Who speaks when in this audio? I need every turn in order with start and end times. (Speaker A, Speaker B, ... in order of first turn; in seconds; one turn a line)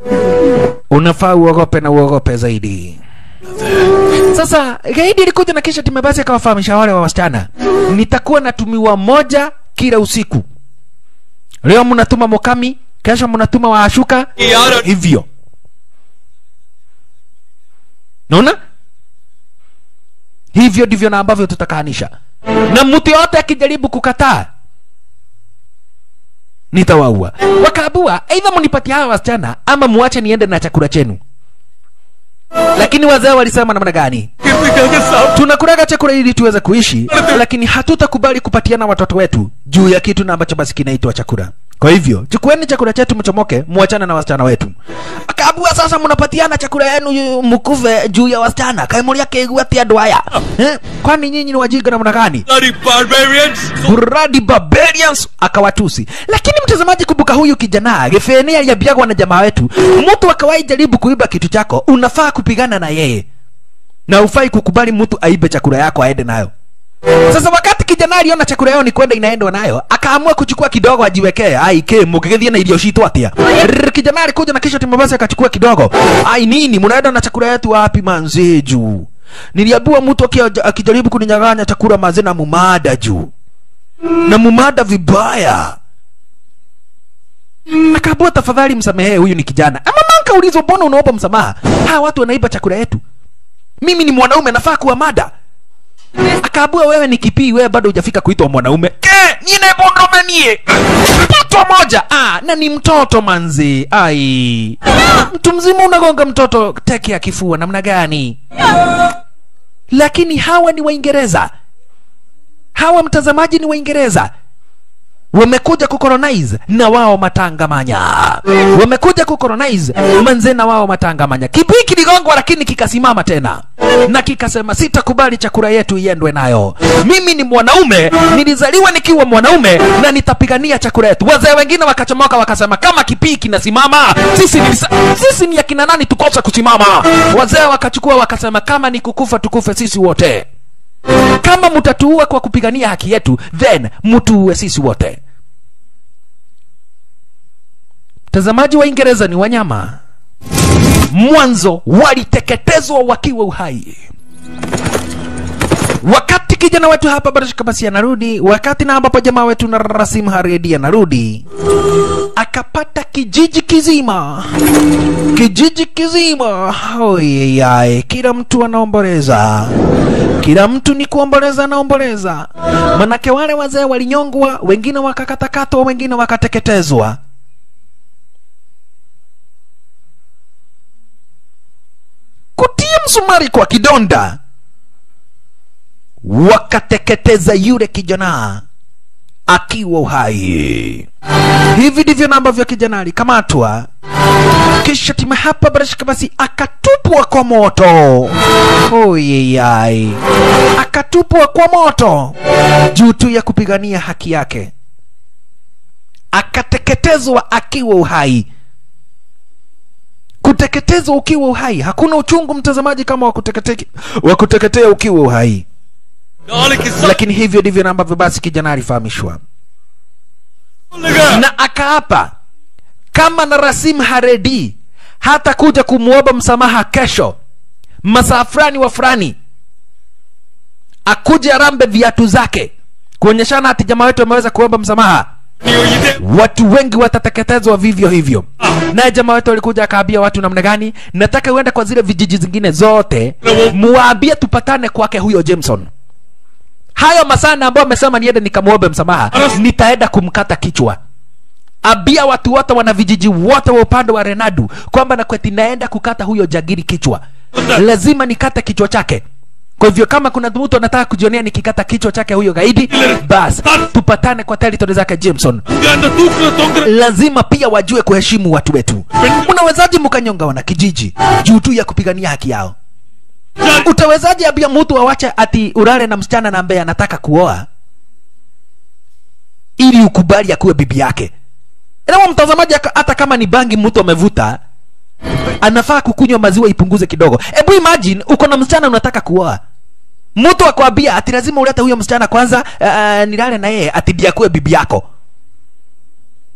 Speaker A: 0.9-3.0
Speaker A: 4.3-10.4
Speaker A: 11.6-15.3
Speaker B: 14.4-14.7
Speaker A: 18.3-18.6
Speaker A: 20.5-22.1
Speaker A: 22.7-24.5
Speaker A: 26.7-31.2
Speaker A: 32.8-34.3
Speaker B: 34.4-35.3
Speaker A: 35.3-44.7
Speaker A: 45.3-52.4
Speaker B: 52.5-53.9
Speaker A: 53.8-63.2
Speaker A: 64.1-66.5
Speaker A: 67.3-83.3
Speaker A: 84.2-85.8
Speaker A: 87.7-93.0
Speaker A: 93.8-95.3
Speaker A: 96.4-108.4
Speaker A: 109.9-111.5
Speaker A: 112.8-114.3
Speaker A: 115.3-140.4
Speaker A: 141.4-145.2
Speaker A: 148.3-150.0
Speaker A: 151.1-154.0
Speaker A: 156.0-161.4
Speaker A: 162.3-164.5
Speaker A: 165.3-169.7
Speaker A: 170.4-177.2
Speaker A: 182.6-184.4
Speaker A: 186.2-188.6
Speaker A: 189.5-191.1
Speaker A: 191.7-193.9
Speaker A: 194.8-200.2
Speaker A: 200.8-202.3
Speaker A: 202.9-204.7
Speaker A: 206.3-208.4
Speaker A: 210.4-215.6
Speaker B: 216.5-217.2
Speaker A: 216.9-219.4
Speaker B: 220.9-221.3
Speaker A: 221.2-222.3
Speaker A: 223.1-227.3
Speaker A: 228.0-229.3
Speaker A: 231.1-235.3
Speaker B: 235.7-236.1
Speaker A: 236.1-245.9
Speaker A: 246.9-251.0
Speaker A: 251.8-257.2
Speaker A: 257.7-259.2
Speaker A: 259.8-265.6
Speaker B: 262.9-263.8
Speaker B: 265.7-266.9
Speaker A: 266.8-272.7
Speaker B: 273.6-273.9
Speaker A: 273.8-277.7
Speaker A: 279.8-281.3
Speaker A: 282.1-284.6
Speaker A: 285.6-289.6
Speaker A: 290.4-295.0